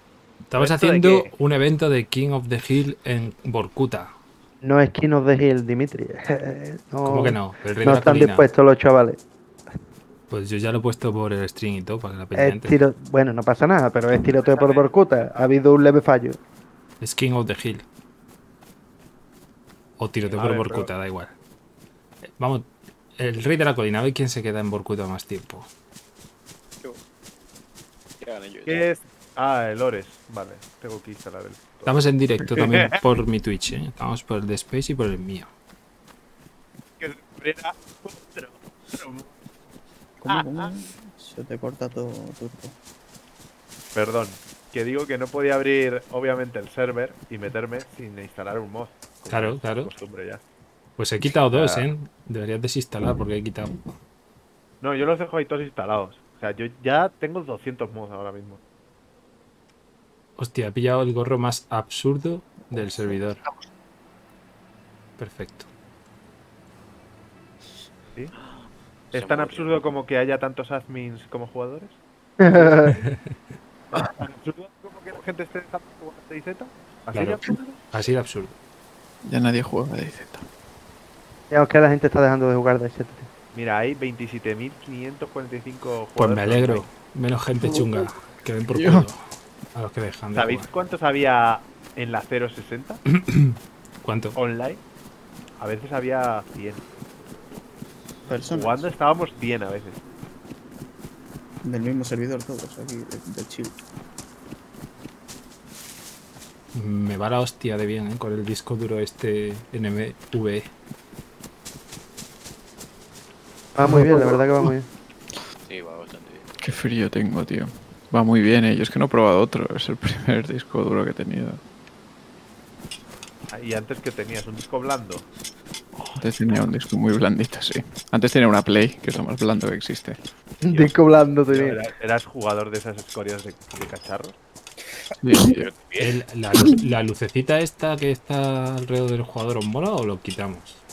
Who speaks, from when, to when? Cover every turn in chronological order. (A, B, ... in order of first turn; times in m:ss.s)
0:00.5-0:04.1 A
0:00.6-0:01.3 B
0:04.6-0:09.2 C
0:07.0-0:08.5 A
0:10.3-0:12.8 A
0:12.4-0:16.4 C
0:14.4-0:14.9 B
0:17.0-0:17.8 A
0:20.0-0:21.3 A
0:20.3-0:20.9 B
0:22.4-0:25.7 A
0:28.2-0:28.8 D
0:28.6-0:31.9 B
0:31.8-0:35.5 A
0:32.5-0:33.0 B
0:37.0-0:39.3 B
0:40.2-0:42.7 E
0:40.3-0:40.7 B
0:43.9-0:50.4 B
0:49.3-0:49.9 A
0:51.0-0:53.9 A
0:51.5-0:51.8 B
0:54.8-0:58.6 B
1:00.4-1:03.4 A
1:05.2-1:05.7 A
1:08.4-1:09.9 D
1:09.1-1:12.0 B
1:12.4-1:12.9 C
1:13.9-1:17.7 B
1:17.1-1:18.6 A
1:19.2-1:20.4 F
1:21.5-1:23.3 C
1:23.5-1:26.9 B
1:26.2-1:29.2 A
1:27.6-1:28.1 F
1:28.7-1:29.1 F
1:29.7-1:30.7 A
1:30.3-1:33.0 B
1:33.1-1:34.4 A
1:34.4-1:34.8 B
1:35.6-1:36.8 B
1:38.3-1:38.8 E
1:38.5-1:40.0 B
1:41.6-1:43.7 E
1:46.7-1:50.7 A
1:53.8-1:54.9 C
1:53.8-1:54.7 F
1:55.6-1:56.5 D
1:56.6-2:01.6 F
2:03.5-2:05.2 B
2:06.2-2:10.2 F
2:10.6-2:11.8 C
2:10.7-2:14.4 B
2:15.2-2:15.7 F
2:15.4-2:16.2 D
2:16.0-2:20.8 A